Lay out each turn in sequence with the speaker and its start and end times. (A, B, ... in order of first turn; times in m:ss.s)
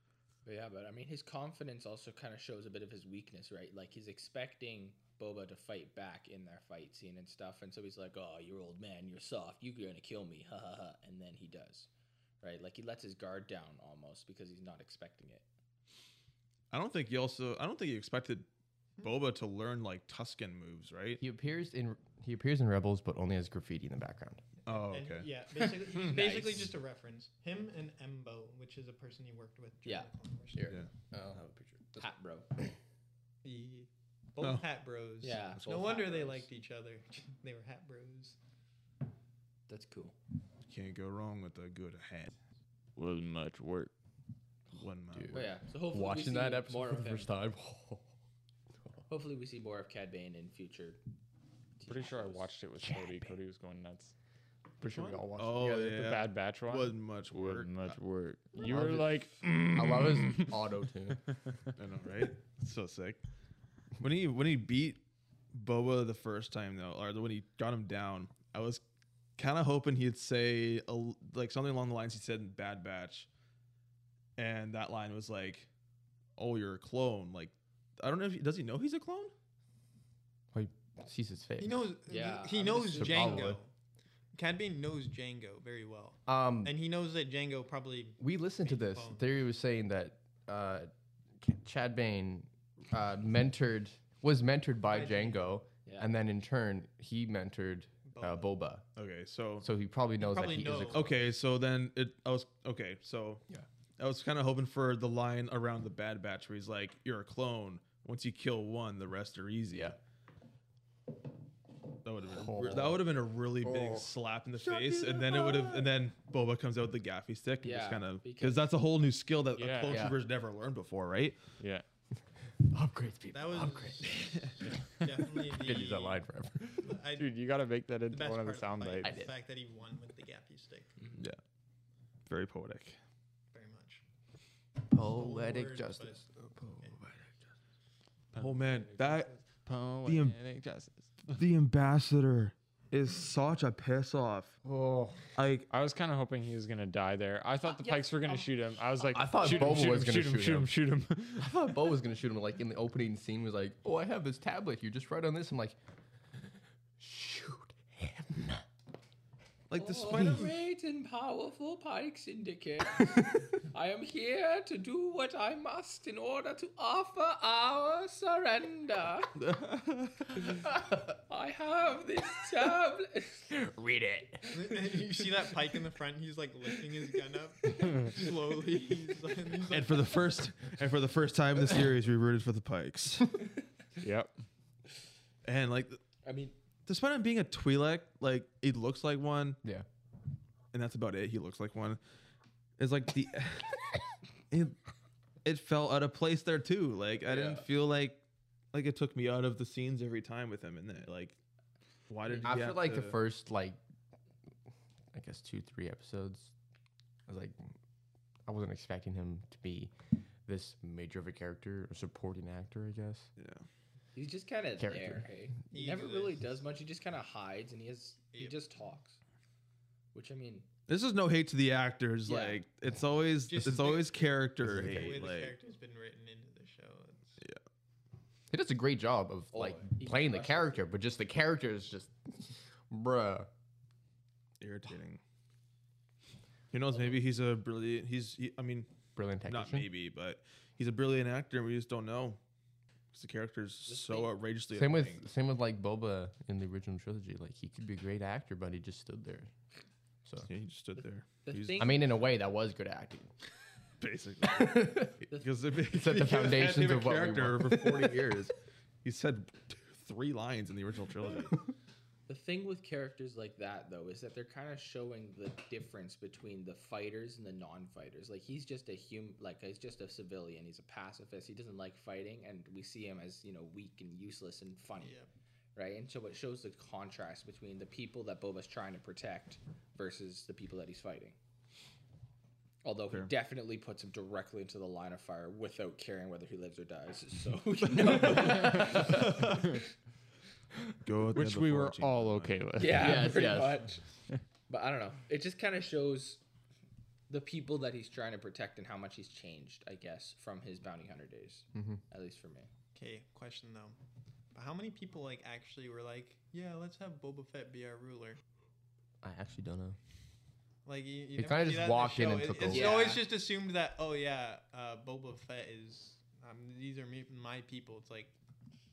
0:00.4-0:11.9 A
0:12.4-0:15.4 A
0:16.7-0:18.5 B
0:19.0-0:21.2 B
0:21.2-0:24.4 C
0:24.6-0:25.3 B
0:24.9-0:30.8 D
0:26.0-0:26.6 C
0:30.5-0:32.1 C
0:32.0-0:32.5 A
0:33.4-0:38.4 D
0:35.2-0:36.5 A
0:39.7-0:40.1 A
0:40.6-0:42.3 B
0:43.0-0:43.9 E
0:44.7-0:45.4 B
0:45.1-0:48.1 C
0:45.3-0:47.3 A
0:49.1-0:51.0 A
0:51.8-0:53.2 A
0:51.9-0:54.1 E
0:54.8-0:56.2 C
0:54.8-0:57.9 B
0:55.6-1:00.5 E
0:58.6-1:01.4 C
1:01.8-1:03.2 B
1:04.0-1:05.0 B
1:05.5-1:08.8 B
1:09.4-1:13.3 B
1:14.4-1:15.7 B
1:16.4-1:19.3 B
1:20.5-1:21.8 C
1:21.6-1:23.7 D
1:22.1-1:23.5 A
1:23.0-1:23.6 C
1:24.3-1:29.4 D
1:26.2-1:26.7 C
1:28.2-1:38.8 C
1:34.8-1:35.5 D
1:35.8-1:36.1 A
1:38.0-1:38.5 D
1:39.0-1:39.7 B
1:39.6-1:41.2 C
1:40.2-1:41.1 D
1:40.9-1:43.4 B
1:44.0-1:50.0 B
1:49.7-1:50.0 C
1:52.0-2:01.4 B
1:52.3-1:53.0 C
1:53.6-1:56.0 C
1:57.6-1:58.7 A
1:59.6-2:00.1 E
1:59.9-2:00.2 C
2:01.6-2:01.8 E
2:02.7-2:04.4 C
2:03.3-2:06.2 D
2:05.2-2:06.9 C
2:06.8-2:07.3 D
2:07.1-2:09.2 E
2:08.1-2:10.9 D
2:09.0-2:09.3 C
2:11.0-2:11.3 A
2:12.3-2:13.0 B
2:13.5-2:14.0 D
2:14.8-2:17.3 C
2:15.0-2:16.2 D
2:18.3-2:21.1 E
2:18.3-2:19.3 B
2:20.0-2:20.4 B
2:21.3-2:24.6 B
2:24.6-2:25.2 C
2:25.4-2:25.7 B
2:25.7-2:31.5 E
2:27.6-2:28.5 A
2:29.1-2:30.7 C
2:29.2-2:30.0 B
2:31.3-2:35.8 C
2:37.0-2:38.6 C
2:39.7-2:40.6 B
2:39.7-2:49.3 A
2:49.4-2:50.4 B
2:50.5-2:53.6 A
2:53.8-2:54.2 C
2:54.5-3:00.3 D
2:59.7-3:03.4 B
3:04.0-3:04.3 E
3:05.4-3:06.0 B
3:06.2-3:06.6 A
3:06.8-3:09.6 B
3:10.7-3:12.0 B
3:12.8-3:13.9 B
3:14.5-3:14.8 B
3:15.4-3:18.2 B
3:17.3-3:17.6 A
3:18.7-3:21.4 B
3:22.1-3:23.2 B
3:22.4-3:23.8 C
3:25.1-3:26.5 C
3:27.3-3:27.7 C
3:28.4-3:29.9 C
3:30.4-3:33.3 C
3:33.4-3:33.6 B
3:34.1-3:39.2 A
3:34.8-3:35.3 C
3:35.7-3:36.4 D
3:40.1-3:40.7 A
3:40.9-3:45.5 B
3:42.2-3:42.6 A
3:43.5-3:47.4 D
3:44.6-3:45.2 C
3:48.5-3:53.5 C
3:49.5-3:50.8 A
3:54.6-3:55.2 B
3:56.7-3:58.9 B
3:59.2-3:59.9 C
3:59.4-4:02.4 B
4:03.1-4:05.2 B
4:03.8-4:04.3 A
4:04.7-4:09.5 C
4:10.4-4:11.9 B
4:11.0-4:12.0 A
4:11.8-4:13.3 C
4:14.0-4:18.5 B
4:14.4-4:15.2 C
4:15.9-4:18.5 C
4:19.0-4:21.6 B
4:22.3-4:35.2 A
4:35.0-4:35.3 D
4:35.7-4:41.4 A
4:42.8-4:49.8 A
4:47.9-4:49.3 C
4:49.2-4:49.6 B
4:51.0-4:52.6 B
4:51.3-4:53.6 E
4:52.8-4:54.0 A
4:52.9-4:53.9 C
4:54.7-4:56.4 A
4:57.3-5:02.7 A
5:01.7-5:02.0 C
5:03.0-5:04.0 D
5:04.5-5:08.4 D
5:09.2-5:10.0 C
5:10.8-5:18.3 D
5:11.4-5:13.0 C
5:12.7-5:13.2 A